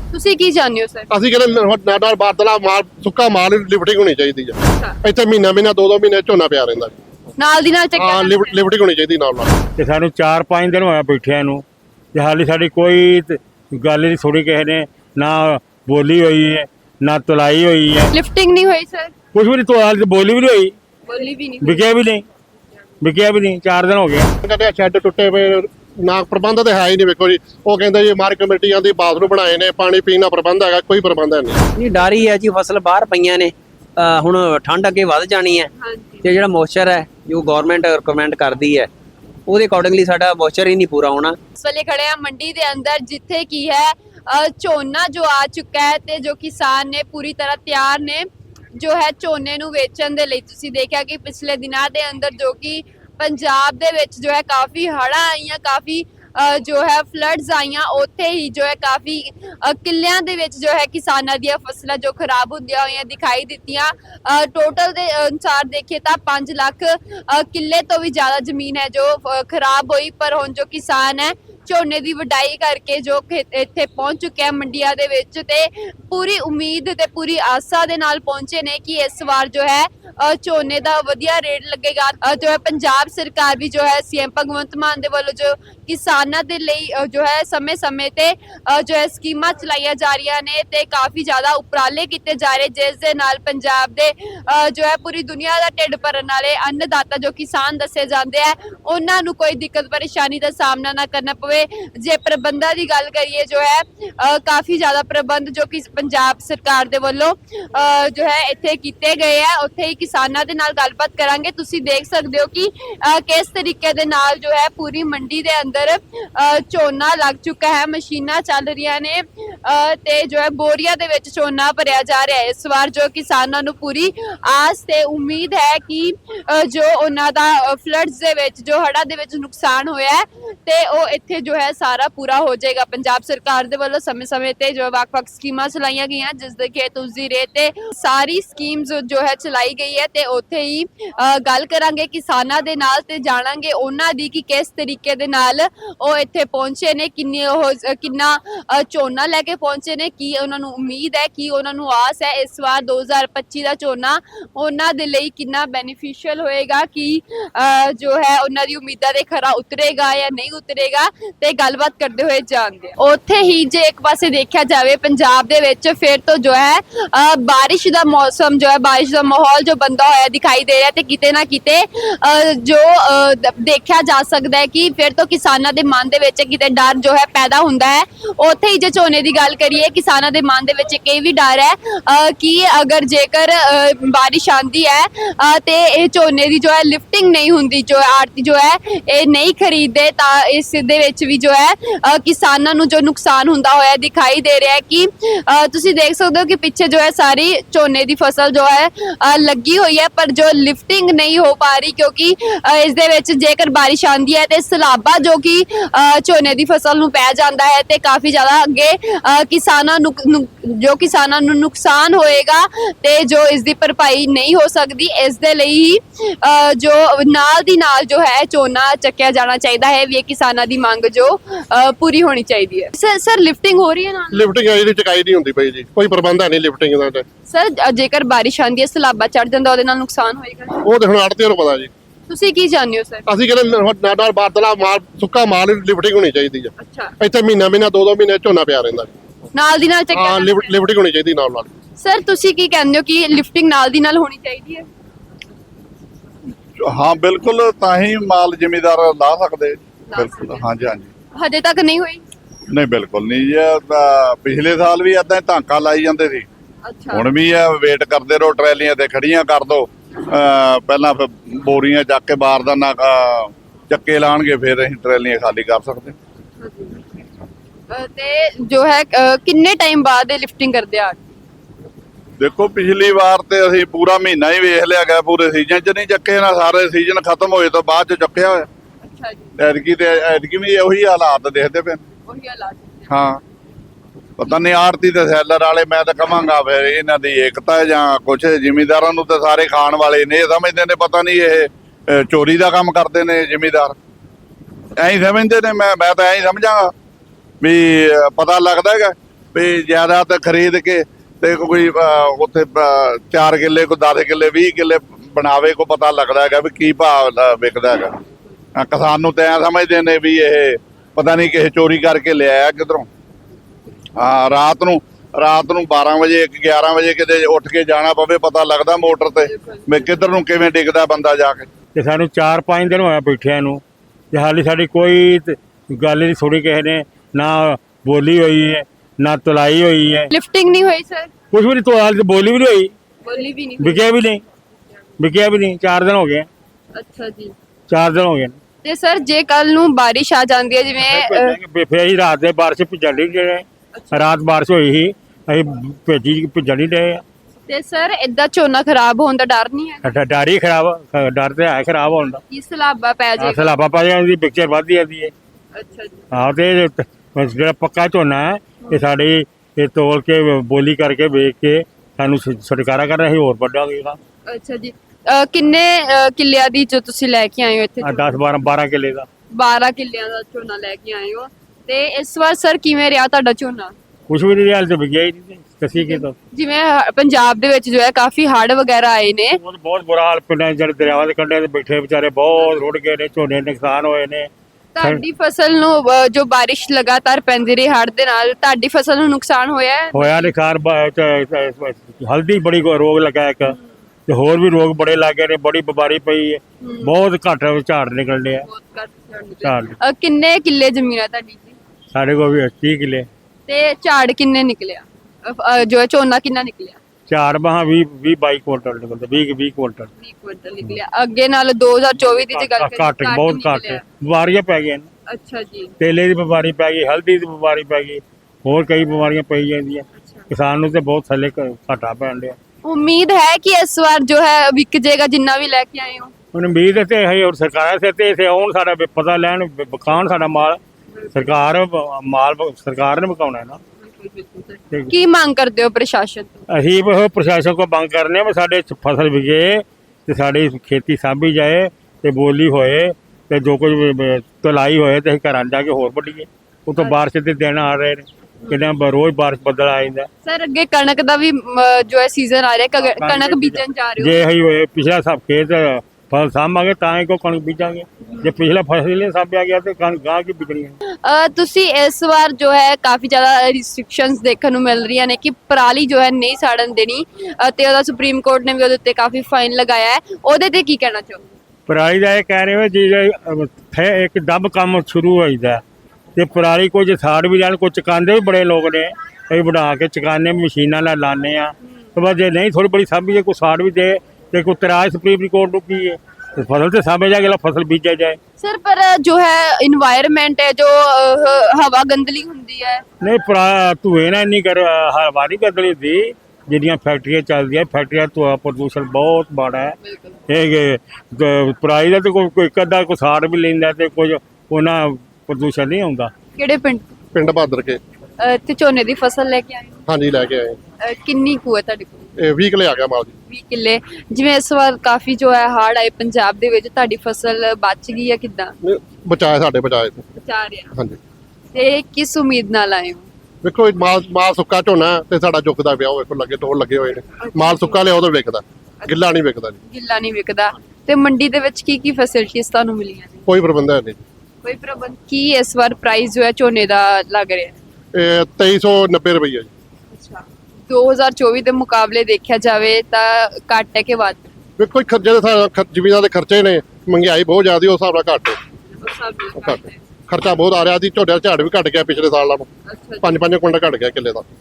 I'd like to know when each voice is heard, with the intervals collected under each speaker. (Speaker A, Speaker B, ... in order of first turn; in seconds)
Speaker A: 0.1-1.1, 7.4-8.6, 18.1-19.1, 21.1-21.9, 35.8-36.3, 41.6-224.5, 227.5-230.8, 232.3-233.2, 236.8-237.2, 239.6-240.7, 242.0-244.9, 250.1-250.7, 251.4-252.2, 256.8-257.3, 266.6-267.0, 267.9-271.4, 279.0-279.5, 282.3-283.2, 319.4-320.1, 330.3-331.3, 333.2-334.1, 336.9-337.5, 338.8-341.6, 343.9-344.3, 347.7-350.1, 352.5-353.8, 355.8-356.2, 364.5-368.4, 369.5-373.9, 375.9-379.6, 384.9-390.5, 396.8-397.1, 398.6-401.8, 403.7-407.0, 410.2-414.0, 415.3-415.9, 420.2-420.5, 422.8-426.3, 434.0-436.6, 450.4-454.4, 458.3-458.5, 461.2-471.4, 488.6-493.0, 500.0-500.4, 506.6-507.1, 508.4-510.0, 511.0-512.3, 513.5-518.8, 520.4-520.9, 521.7-523.3, 527.4-528.0, 529.9-533.5, 534.6-537.8, 540.1-544.5, 549.0-550.0, 552.9-553.4
Speaker B: 1.1-7.0, 8.0-9.6, 24.4-31.6, 224.3-227.2, 230.8-231.9, 233.3-239.1, 240.1-241.7, 507.3-508.0, 510.1-510.8, 512.4-513.3, 518.8-520.2, 523.6-529.8, 533.5-534.2, 538.1-539.7, 544.8-548.6, 549.6-552.7, 553.2-554.5
Speaker C: 9.8-18.1, 19.3-20.8, 21.6-22.2, 23.0-24.3, 321.9-330.3, 331.5-332.9, 333.8-334.4, 335.2-336.5, 337.9-338.6, 341.0-347.2, 350.0-352.4, 353.4-355.3, 356.3-364.2, 368.0-369.3, 374.3-376.4, 379.6-385.2, 390.1-393.8, 394.3-398.7, 399.6-400.0, 402.1-403.3, 407.3-410.1, 412.2-415.1, 416.0-422.6, 426.5-430.8, 431.3-433.8, 436.7-450.3, 453.0-460.9, 471.9-475.8, 476.4-488.4, 493.2-500.0, 500.5-506.3
Speaker D: 31.8-35.7, 36.2-38.9, 39.5-41.4
Speaker E: 246.8-251.1, 252.7-256.5, 257.1-266.2, 272.4-278.7, 279.6-282.0, 283.1-283.4, 284.4-294.0, 295.0-296.9, 297.6-308.2, 308.8-313.1, 314.2-321.7